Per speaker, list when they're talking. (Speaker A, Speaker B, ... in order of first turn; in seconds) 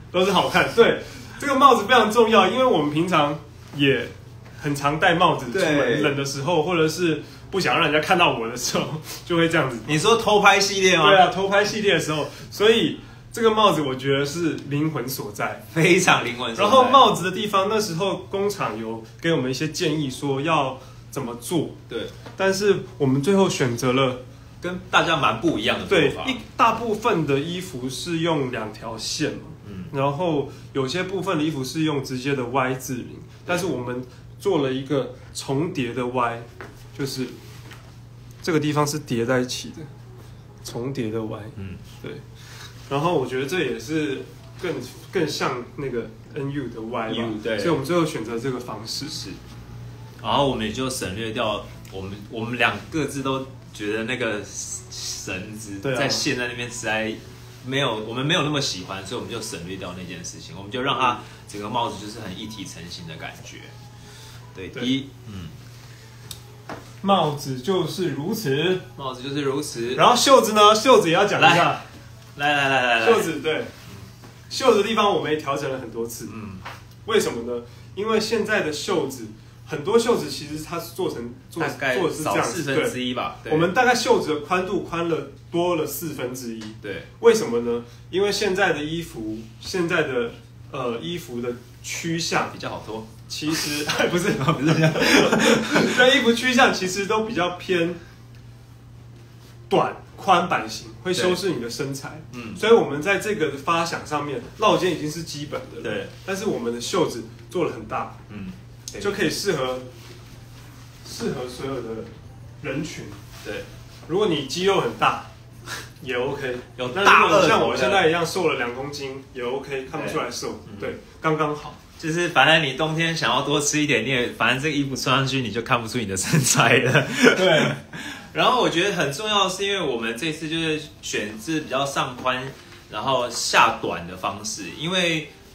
Speaker A: 0.1-10.0, 11.0-15.6, 16.6-24.2, 25.9-37.4, 38.4-39.9, 40.6-42.3, 42.9-49.2, 55.8-56.3, 67.0-68.8, 70.0-71.9, 73.0-73.7, 74.5-76.3, 77.0-92.6, 93.3-98.0, 99.7-108.2, 109.0-109.9, 111.0-113.2, 114.1-115.3, 116.0-121.8, 127.3-127.8
Speaker B: 5.5-6.2, 9.9-11.3, 15.7-17.1, 24.6-26.4, 29.6-29.9, 41.6-41.8, 47.1-47.8, 49.1-49.4, 50.2-63.7, 64.5-65.5, 69.0-70.1, 71.4-71.8, 72.4-73.3, 76.3-76.7, 81.6-83.7, 86.8-87.1, 92.5-93.6, 94.3-96.1, 102.3-102.6, 105.8-106.1, 108.3-109.2, 116.8-118.1, 120.0-121.0, 122.0-135.3